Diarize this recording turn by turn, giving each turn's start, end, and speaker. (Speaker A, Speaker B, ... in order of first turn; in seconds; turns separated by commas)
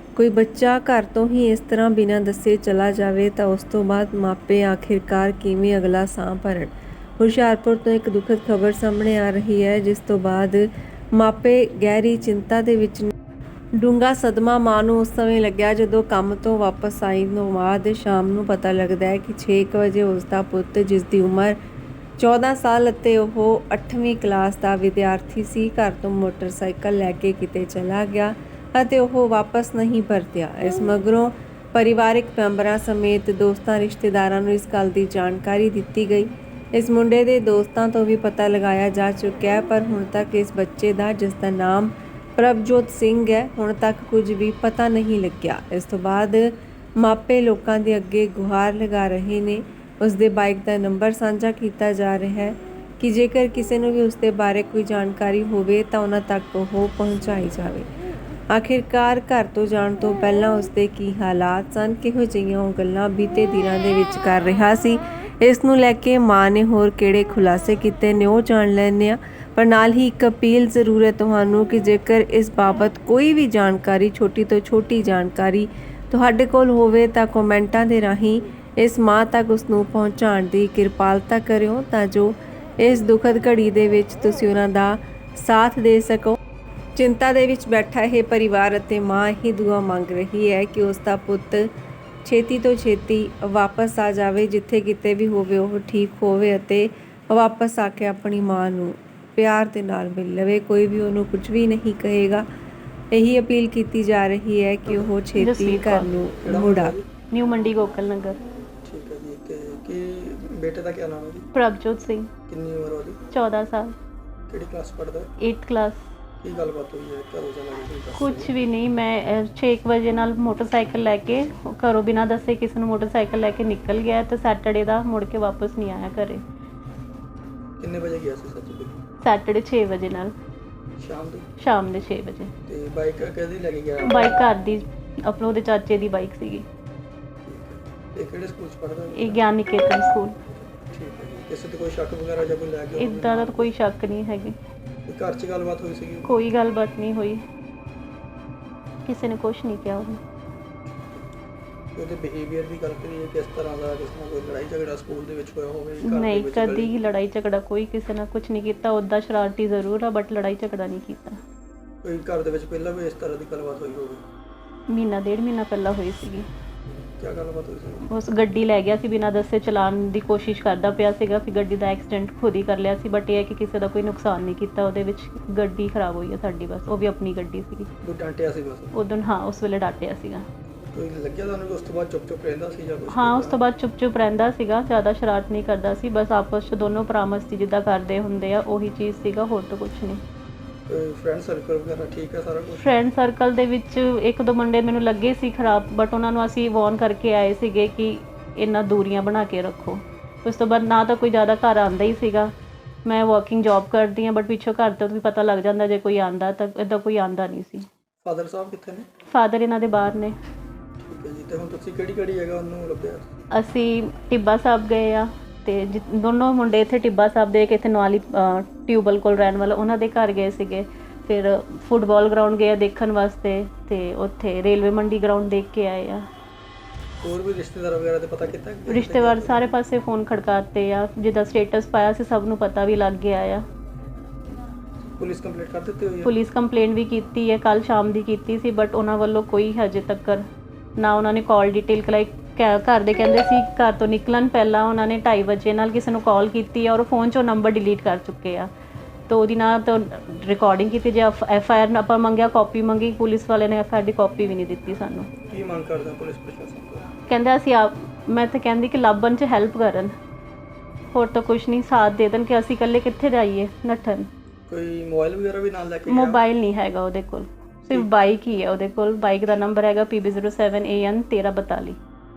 Speaker A: 0.1-13.1, Speaker A: 13.8-21.6, Speaker A: 22.2-57.9, Speaker A: 58.5-86.4, Speaker A: 87.0-91.7, Speaker A: 92.2-102.5, Speaker A: 103.1-107.0, Speaker B: 105.4-106.1, Speaker C: 106.4-107.1, Speaker B: 107.3-108.4, Speaker C: 108.8-111.5, Speaker B: 111.5-112.3, Speaker C: 112.5-113.2, Speaker B: 113.3-114.0, Speaker C: 114.5-115.3, Speaker B: 115.4-116.0, Speaker C: 116.4-118.5, Speaker B: 118.2-126.4, Speaker C: 127.8-129.0, Speaker B: 129.2-130.3, Speaker C: 131.0-131.5, Speaker B: 131.6-132.5, Speaker C: 132.7-134.4, Speaker B: 134.0-136.7, Speaker C: 137.4-139.4, Speaker B: 139.1-140.4, Speaker C: 140.8-143.7, Speaker B: 143.0-144.6, Speaker C: 145.1-146.3, Speaker B: 146.2-147.4, Speaker B: 149.1-150.2, Speaker C: 150.9-151.3, Speaker C: 151.9-156.9, Speaker B: 156.0-161.4, Speaker C: 162.0-164.2, Speaker B: 164.9-166.5, Speaker C: 167.2-168.0, Speaker B: 168.0-177.9, Speaker C: 178.0-178.9, Speaker B: 178.9-180.5, Speaker C: 180.9-183.6, Speaker B: 183.1-190.2, Speaker C: 190.9-193.0, Speaker B: 192.8-202.5, Speaker B: 203.1-207.9, Speaker C: 208.2-209.1, Speaker B: 209.3-210.4, Speaker C: 211.0-213.3, Speaker B: 213.5-226.3, Speaker C: 227.2-229.7, Speaker B: 228.9-233.6, Speaker C: 235.2-236.3, Speaker B: 236.2-240.5, Speaker B: 241.0-248.7, Speaker B: 249.3-255.3, Speaker C: 255.5-257.1, Speaker B: 257.3-260.1, Speaker B: 261.1-264.3, Speaker C: 264.7-266.4, Speaker B: 266.1-272.0